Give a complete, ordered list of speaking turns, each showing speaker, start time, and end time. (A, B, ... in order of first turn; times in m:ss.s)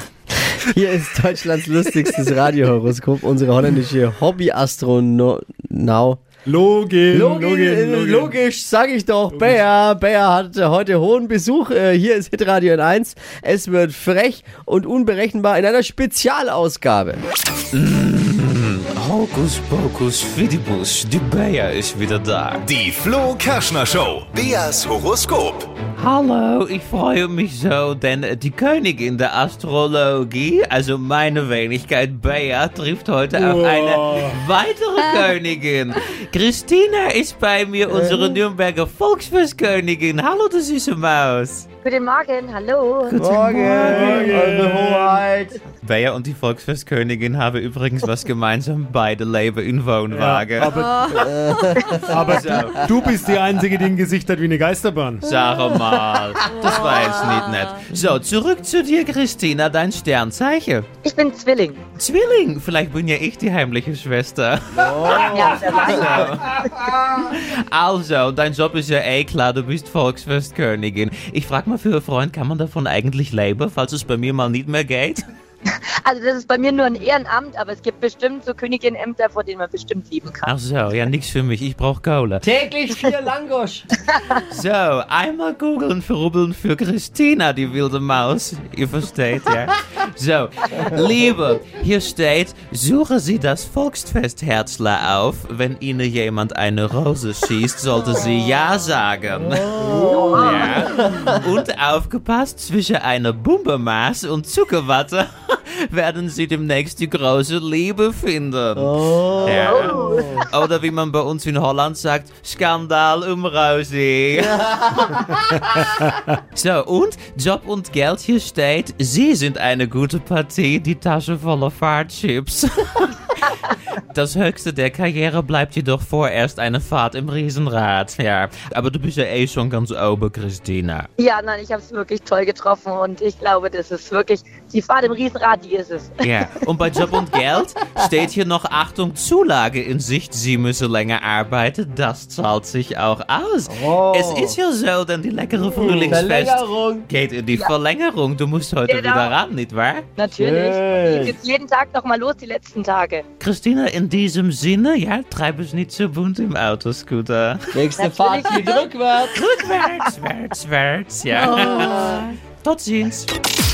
0:00.7-0:06.2 A
0:06.5-0:08.4 B
0:07.1-0:17.2 A
0:09.3-0:09.6 B
0:17.7-0:22.6 C
0:22.8-0:25.6 D
0:26.0-0:41.7 C
0:33.3-0:34.4 B
0:37.9-0:38.4 A
0:41.8-0:43.2 E
0:43.1-0:44.4 C
0:43.2-0:45.6 A
0:43.5-0:45.2 B
0:45.8-0:50.8 C
0:50.1-0:55.3 B
0:51.2-0:51.9 A
0:52.3-0:52.8 C
0:55.2-1:00.9 C
1:01.0-1:01.8 E
1:02.0-1:06.5 C
1:04.8-1:06.2 A
1:05.1-1:06.9 E
1:07.2-1:15.2 C
1:16.0-1:20.5 E
1:20.4-1:22.5 C
1:22.4-1:23.9 A
1:24.0-1:24.4 E
1:24.4-1:54.7 C
1:39.4-1:41.4 A
1:40.0-1:40.9 E
1:48.8-1:50.5 A
1:49.5-1:50.5 E
1:54.4-1:55.3 A
1:55.8-2:03.4 C
2:04.1-2:11.1 C
2:11.2-2:16.1 E
2:16.2-2:30.0 C
2:23.7-2:24.6 A
2:25.6-2:27.1 A
2:28.8-2:29.4 E
2:30.2-2:33.2 E
2:30.4-2:31.4 A
2:33.4-2:37.6 C
2:37.7-2:39.4 A
2:38.0-2:38.9 E
2:39.3-2:43.3 C